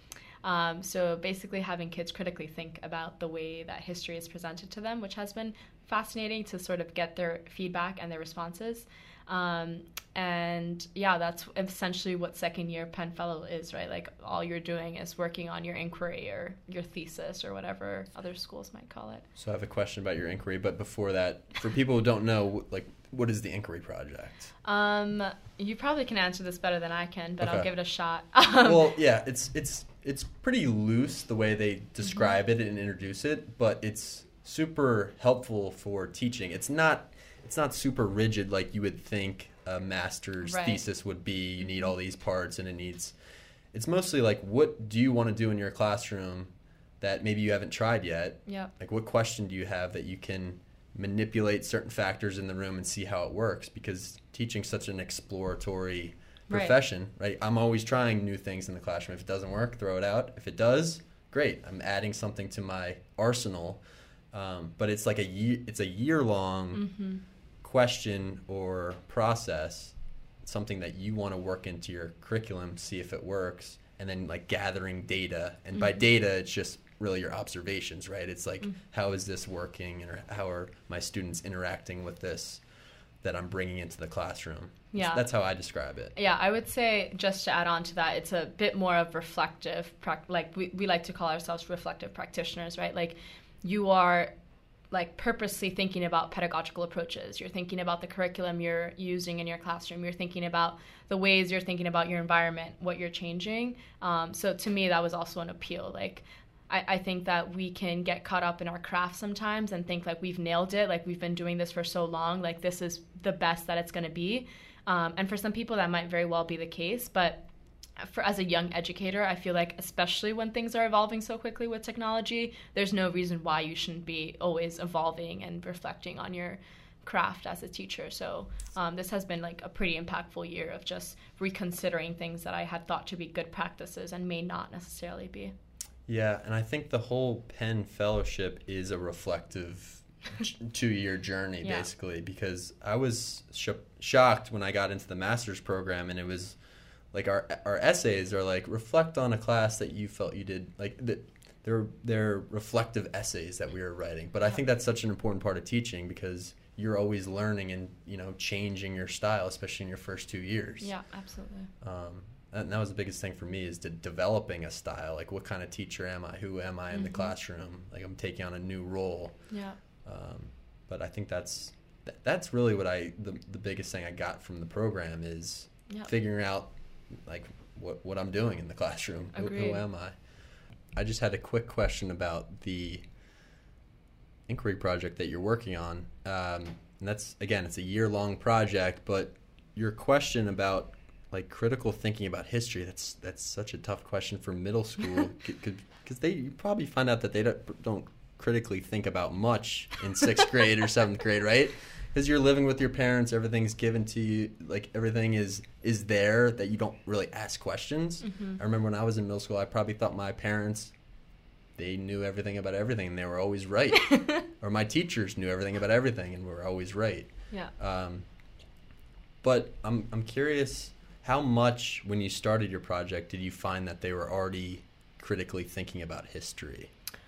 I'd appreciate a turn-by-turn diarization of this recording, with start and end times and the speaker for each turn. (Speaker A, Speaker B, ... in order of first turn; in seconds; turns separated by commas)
Speaker A: 0.4-19.3, Speaker B: 19.4-24.5, Speaker A: 24.6-28.9, Speaker B: 27.4-27.7, Speaker B: 28.6-43.1, Speaker A: 32.0-32.3, Speaker A: 40.4-40.8, Speaker B: 43.7-46.5, Speaker B: 47.0-66.8, Speaker A: 66.7-67.2, Speaker B: 67.6-82.6, Speaker B: 83.2-86.1, Speaker A: 84.9-85.2, Speaker A: 86.1-94.3, Speaker A: 94.9-117.4, Speaker A: 118.0-135.5, Speaker B: 136.1-146.6, Speaker A: 141.6-141.9, Speaker B: 147.1-160.9, Speaker A: 160.8-161.7, Speaker B: 161.8-169.5, Speaker A: 166.9-167.3, Speaker A: 169.5-169.8, Speaker B: 170.0-180.1, Speaker A: 179.3-179.8, Speaker B: 180.9-183.0, Speaker B: 184.5-210.9, Speaker A: 208.2-208.6, Speaker B: 211.8-218.2, Speaker A: 214.0-214.4, Speaker B: 219.4-226.9